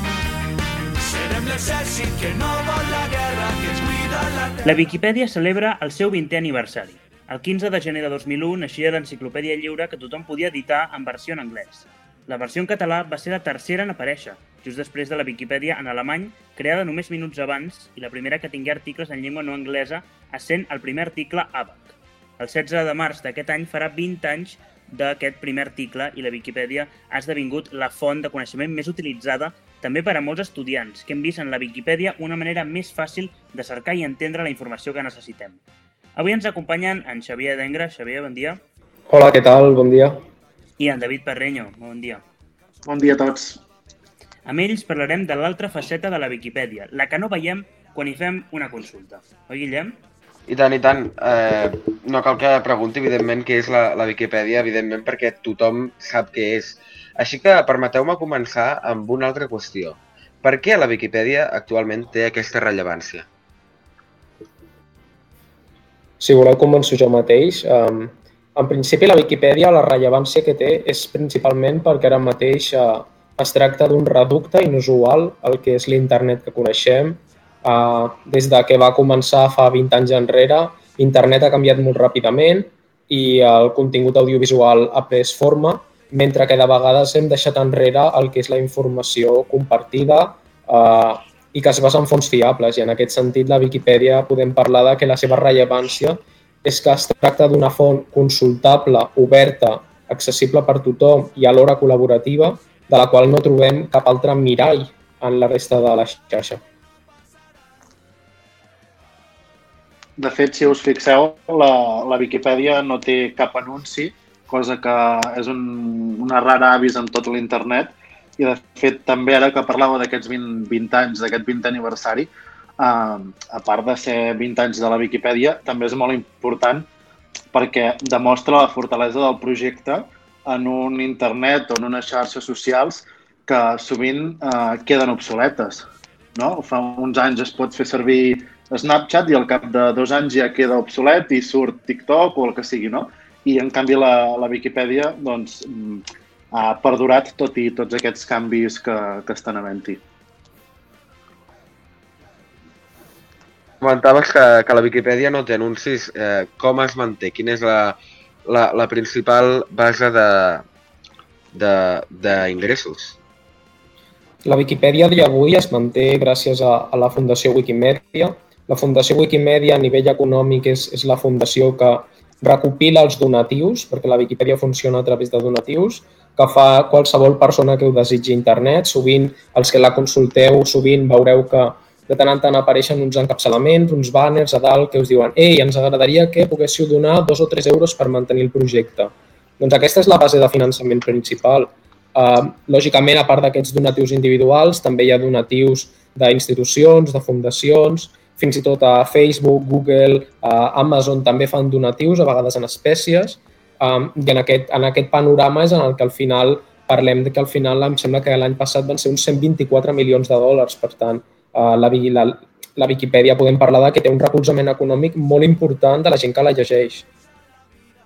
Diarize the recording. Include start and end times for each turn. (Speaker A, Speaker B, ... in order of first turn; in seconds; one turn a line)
Speaker A: 1.0-4.8
Speaker B: 4.6-35.6
Speaker B: 36.2-38.6
Speaker C: 39.1-40.2
Speaker B: 40.8-42.2
Speaker D: 42.9-43.6
Speaker B: 44.5-50.0
Speaker E: 50.5-63.3
Speaker C: 66.2-106.6
Speaker D: 110.2-122.3
Speaker D: 122.8-126.9
Speaker D: 127.5-135.8
Speaker D: 136.4-150.0
Speaker E: 153.8-160.7
Speaker E: 161.5-163.2
Speaker C: 164.4-217.1